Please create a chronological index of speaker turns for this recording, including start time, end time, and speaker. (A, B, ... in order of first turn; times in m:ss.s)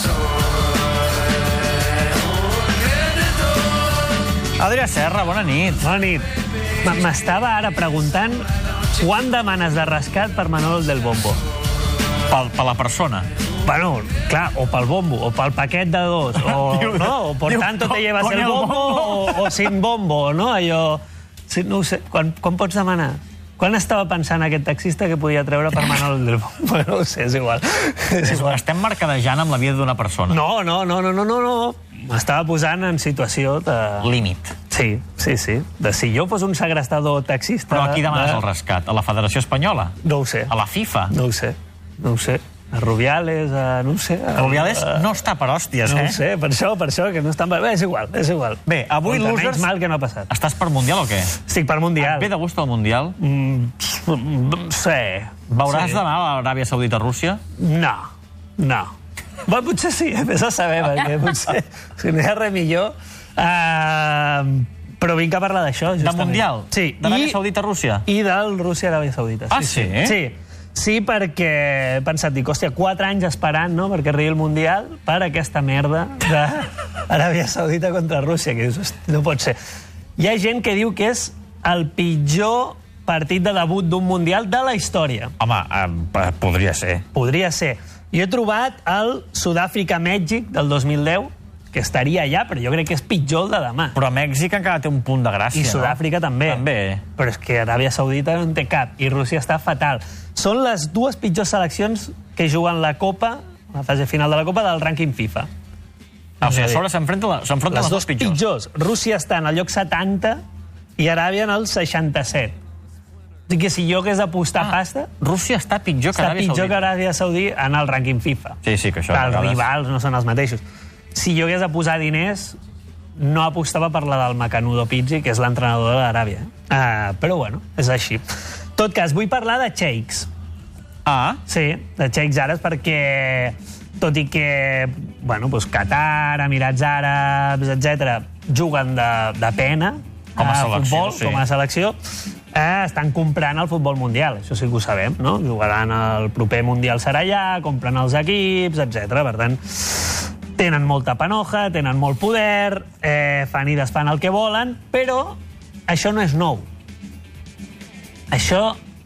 0:04.6-0:05.8 A
0:05.8-0:06.3 B
0:06.8-0:08.4 B
0:09.0-0:11.4 B
0:12.3-0:13.3 A
0:13.6-0:28.6 B
0:16.4-0:19.7 A
0:28.2-0:30.4 A
0:30.3-0:34.1 B
0:34.0-0:34.5 A
0:34.7-0:38.4 B
0:37.7-0:39.9 A
0:40.0-0:40.5 B
0:40.5-0:41.1 A
0:41.1-0:45.1 B
0:44.4-0:46.2 A
0:45.8-0:50.3 B
0:48.7-0:49.7 A
0:50.3-0:51.3 A
0:51.4-0:52.3 B
0:52.0-0:53.2 A
0:53.2-0:56.0 B
0:55.5-0:57.4 A
0:57.6-0:58.1 B
0:58.6-0:58.9 B
0:59.4-1:07.4 B
1:06.0-1:08.0 A
1:08.0-1:19.6 B
1:09.5-1:10.2 A
1:20.2-1:25.3 B
1:25.4-1:27.0 A
1:27.1-1:34.0 B
1:34.0-1:37.0 A
1:35.5-1:36.6 B
1:37.2-1:45.5 B
1:46.4-1:48.4 A
1:46.4-1:46.8 B
1:47.7-1:50.4 B
1:51.0-1:52.6 B
1:53.5-1:55.1 B
1:54.6-1:56.9 A
1:56.2-2:02.6 B
1:58.6-1:59.6 A
2:03.2-2:10.3 B
2:11.1-2:11.4 A
2:11.5-2:22.0 B
2:20.4-2:21.4 A
2:22.5-2:36.7 B
2:38.3-2:38.8 B